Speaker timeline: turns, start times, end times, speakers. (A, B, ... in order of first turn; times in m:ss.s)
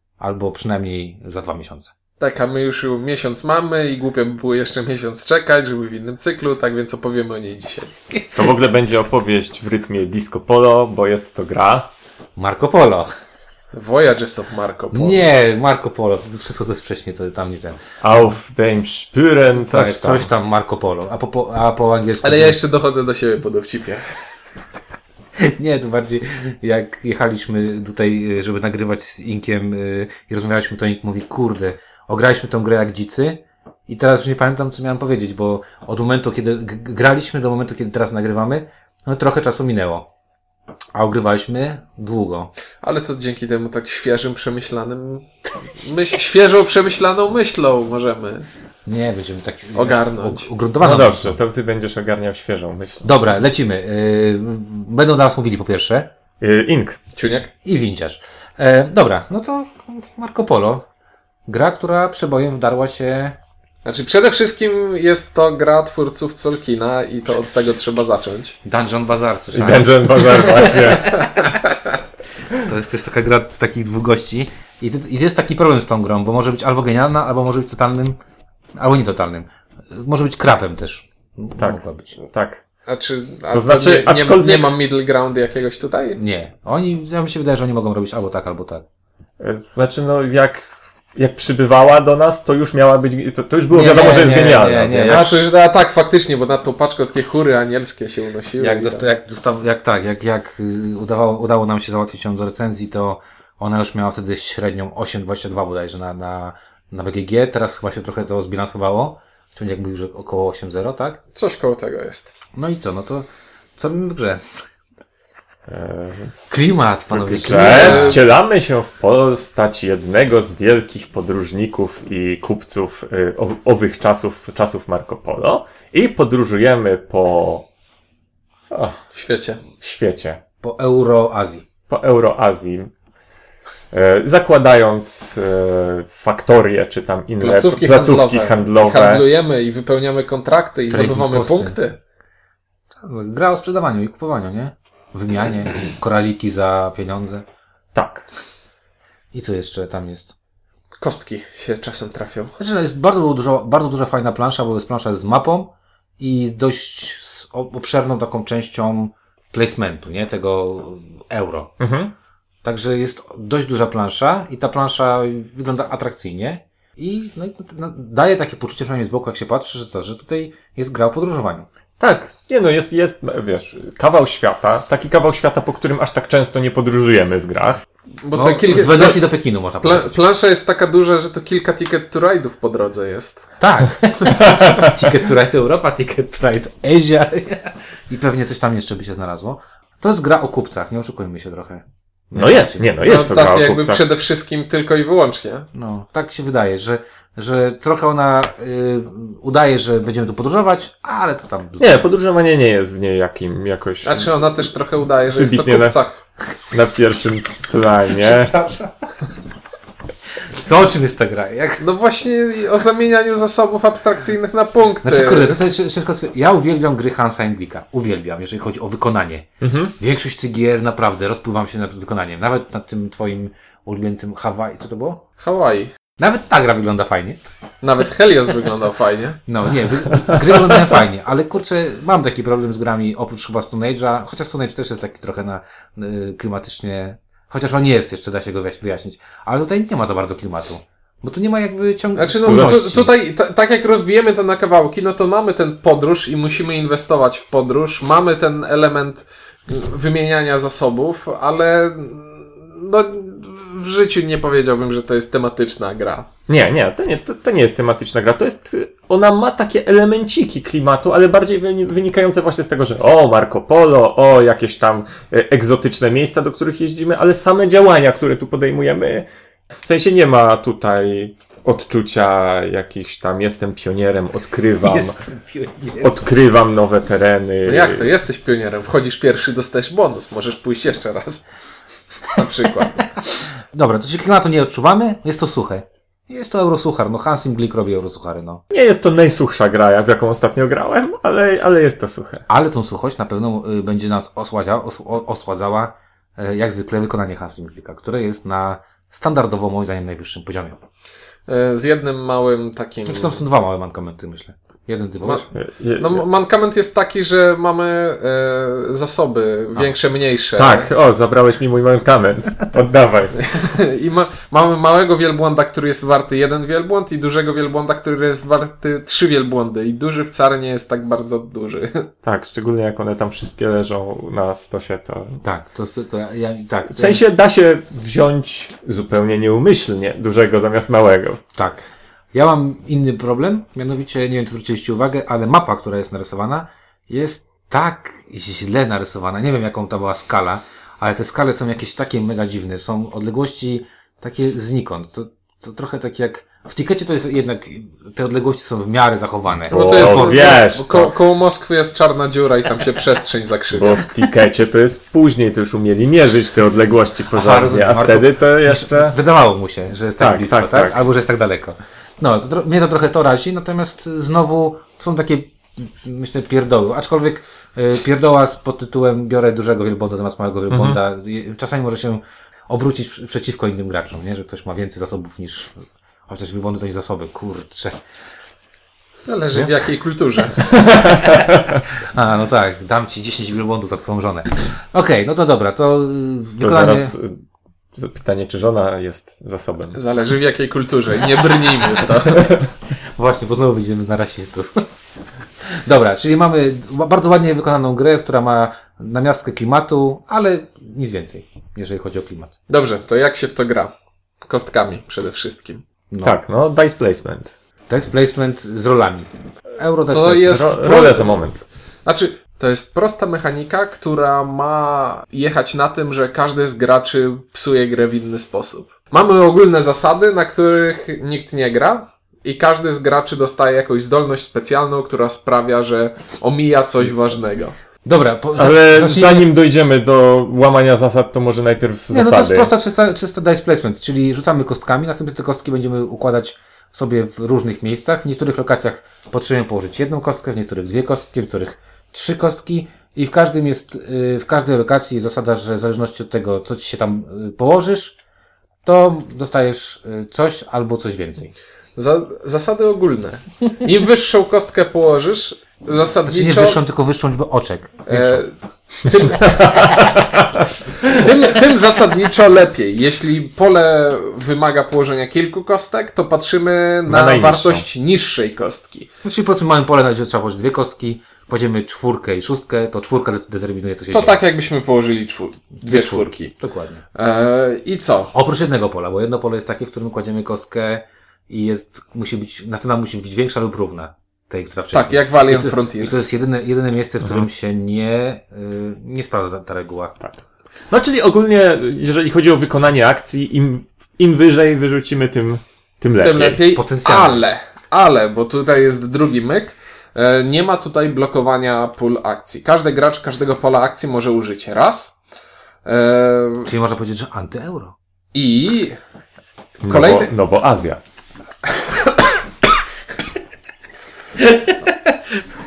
0:00.2-0:01.9 A
0:02.2-0:07.9 B
0:08.3-0:11.9 C
0:12.4-0:13.1 A
0:13.7-0:15.3 B
0:14.9-0:18.3 A
0:18.0-0:20.3 C
0:19.6-0:22.6 A
0:22.2-0:24.2 B
0:25.4-0:40.1 A
0:40.9-0:42.5 A
0:42.8-0:48.5 B
0:48.8-0:51.4 A
0:49.8-0:50.5 B
0:50.8-0:53.1 C
0:53.0-0:56.1 A
0:56.4-0:57.0 C
0:57.2-0:57.5 B
0:57.6-1:00.8 A
1:01.5-1:03.4 A
1:03.8-1:08.6 B
1:08.6-1:11.6 A
1:09.5-1:11.2 C
1:12.5-1:18.2 A
1:18.8-1:22.2 A
1:21.6-1:22.6 C
1:22.8-1:26.2 B
1:23.5-1:24.8 C
1:26.2-1:28.8 A
1:29.4-1:35.4 C
1:33.7-1:35.5 A
1:33.9-1:34.2 B
1:35.1-1:39.0 B
1:38.6-1:51.2 A
1:51.3-1:52.3 B
1:52.5-1:53.2 A
1:53.8-1:54.6 A
1:55.7-1:56.3 C
1:56.5-1:58.2 A
1:57.1-2:07.7 C
1:57.5-1:58.2 B
2:08.7-2:09.0 C
2:09.1-2:09.6 B
2:09.8-2:10.4 C
2:10.6-2:11.6 A
2:11.9-2:12.9 C
2:13.9-2:19.2 C
2:17.4-2:22.0 B
2:20.9-2:21.8 A
2:23.0-2:27.4 A
2:27.9-2:28.3 C
2:29.3-2:30.3 A
2:31.0-2:32.5 B
2:32.6-2:41.7 A
2:41.8-2:42.1 C
2:42.6-2:51.7 A
2:52.0-2:57.8 C
2:58.2-2:59.2 B
2:58.3-3:00.2 A
2:59.8-3:03.5 B
3:03.6-3:13.1 A
3:04.5-3:05.1 C
3:12.4-3:14.0 C
3:13.0-3:15.7 B
3:15.7-3:22.0 A
3:21.8-3:24.3 C
3:24.0-3:26.2 B
3:25.3-3:26.0 C
3:26.7-3:28.5 C
3:28.3-3:28.9 A
3:30.5-3:31.8 A
3:31.8-3:35.6 B
3:35.0-3:45.2 A
3:39.6-3:39.9 C
3:45.4-3:45.9 B
3:46.2-3:47.4 A
3:47.8-3:49.4 B
3:49.5-4:03.1 A
4:02.2-4:16.3 B
4:02.4-4:03.1 C
4:16.5-4:29.3 C
4:29.8-4:35.2 C
4:34.8-4:36.2 A
4:36.0-4:38.1 C
4:37.6-4:41.4 B
4:42.2-4:43.2 B
4:43.7-4:48.6 A
4:48.7-4:52.4 C
4:52.5-5:00.8 A
5:01.5-5:03.4 B
5:03.0-5:05.5 A
5:05.5-5:06.3 C
5:06.0-5:10.9 B
5:10.6-5:13.5 C
5:13.4-5:22.1 B
5:22.2-5:25.4 C
5:25.4-5:27.2 A
5:26.9-5:31.4 C
5:31.5-5:50.6 A
5:49.7-5:51.1 C
5:49.7-5:54.0 B
5:53.7-5:59.2 C
5:57.3-6:18.0 A
6:00.2-6:01.0 C
6:10.7-6:11.0 C
6:19.2-6:20.7 B
6:20.8-6:21.8 C
6:21.9-6:27.1 A
6:26.6-6:27.4 C
6:27.9-6:30.0 C
6:29.9-6:32.4 B
6:32.3-6:32.6 C
6:33.2-6:34.8 A
6:35.8-6:42.5 A
6:42.7-6:45.8 B
6:46.1-6:46.4 A
6:46.2-6:47.6 C
6:47.9-6:50.8 A
6:50.1-6:51.4 B
6:50.5-6:51.6 C
6:52.0-7:07.7 B
7:08.0-7:09.5 A
7:08.6-7:12.7 C
7:12.1-7:28.2 A
7:28.8-7:31.5 A
7:32.0-7:36.8 B
7:36.3-7:38.4 A
7:38.1-7:40.0 B
7:39.3-7:41.3 C
7:41.1-7:49.1 B
7:47.1-7:47.8 C
7:49.2-7:54.4 A
7:54.1-7:56.5 B
7:55.8-7:57.0 A
7:57.1-7:58.3 B
7:58.3-8:10.2 A
8:04.9-8:06.3 B
8:10.2-8:16.6 C
8:16.2-8:25.2 B
8:16.7-8:17.4 A
8:25.8-8:26.7 B
8:26.6-8:27.9 A
8:28.3-8:29.0 B
8:29.8-8:31.0 C
8:29.8-8:30.3 B
8:31.8-8:32.1 B
8:34.4-8:35.2 A